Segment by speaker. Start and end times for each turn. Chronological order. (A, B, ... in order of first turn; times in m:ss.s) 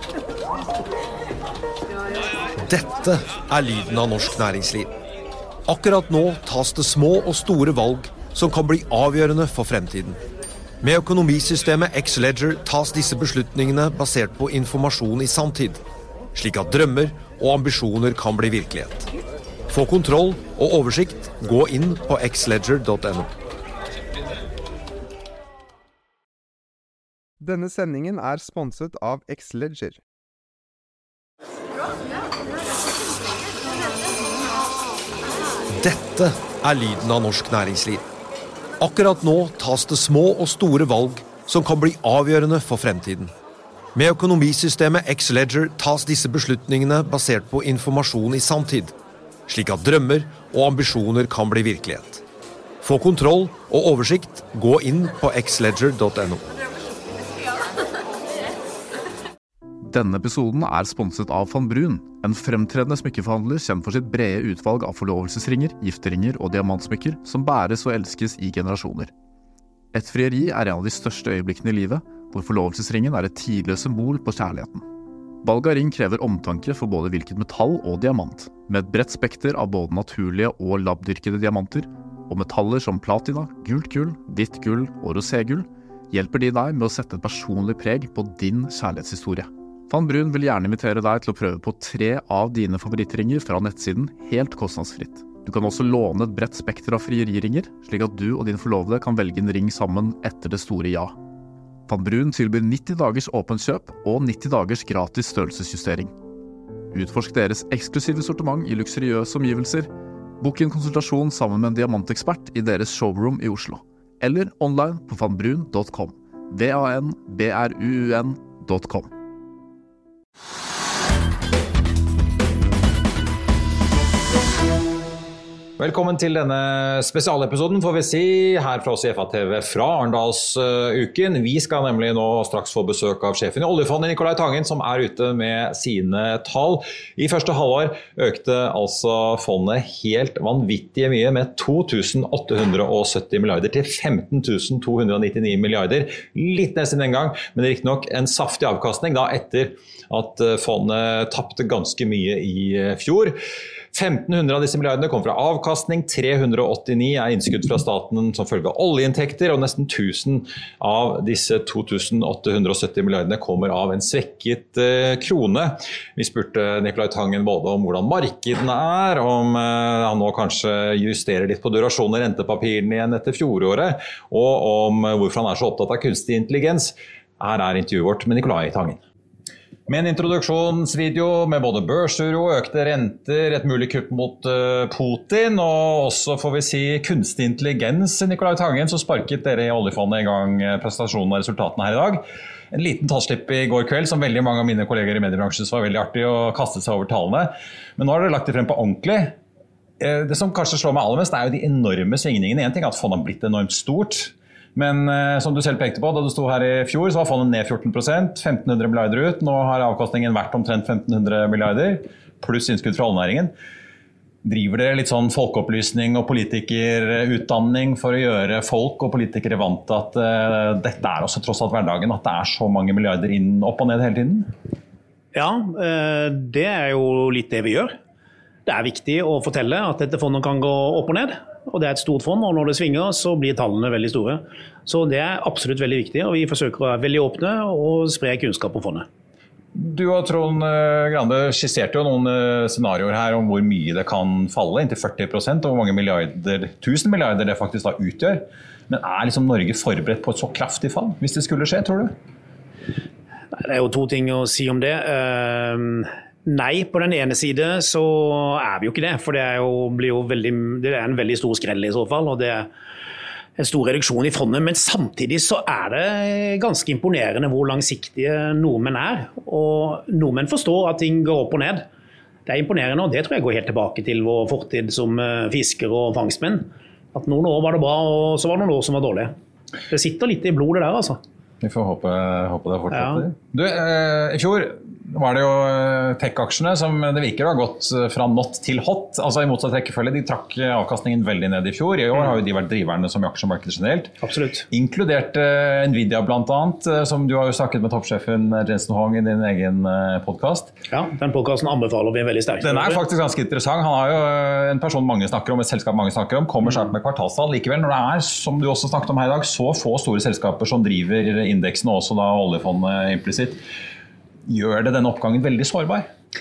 0:02.6-0:04.9 A
0:05.7-0:10.2 A
0:10.8-0:15.8 A
0:16.3-0:19.1 A
0:19.7-0:23.3 A
0:27.4-0:30.0 B
0:35.8-0:38.0 A
0:38.8-0:43.3 A
0:43.9-0:48.9 A
0:49.5-0:52.2 A
0:52.8-0:56.4 A
0:59.8-1:09.1 C
1:09.9-1:14.8 C
1:15.4-1:41.1 C
1:41.9-1:46.1 C
1:46.9-1:49.9 C
1:50.4-1:59.1 C
2:05.8-2:33.3 D
2:33.9-2:59.0 D
2:59.9-3:19.4 D
3:20.0-3:33.5 D
3:34.4-3:44.5 D
3:45.3-3:47.9 E
3:48.6-3:59.1 E
3:59.7-4:12.1 D
4:13.6-4:22.7 E
4:23.6-4:31.8 E
4:32.4-4:39.3 E
4:39.9-4:41.2 E
4:41.6-4:54.1 D
4:42.9-4:43.2 E
4:54.2-4:54.6 E
4:54.7-5:00.7 D
5:00.9-5:03.0 E
5:02.6-5:13.6 D
5:14.5-5:16.1 D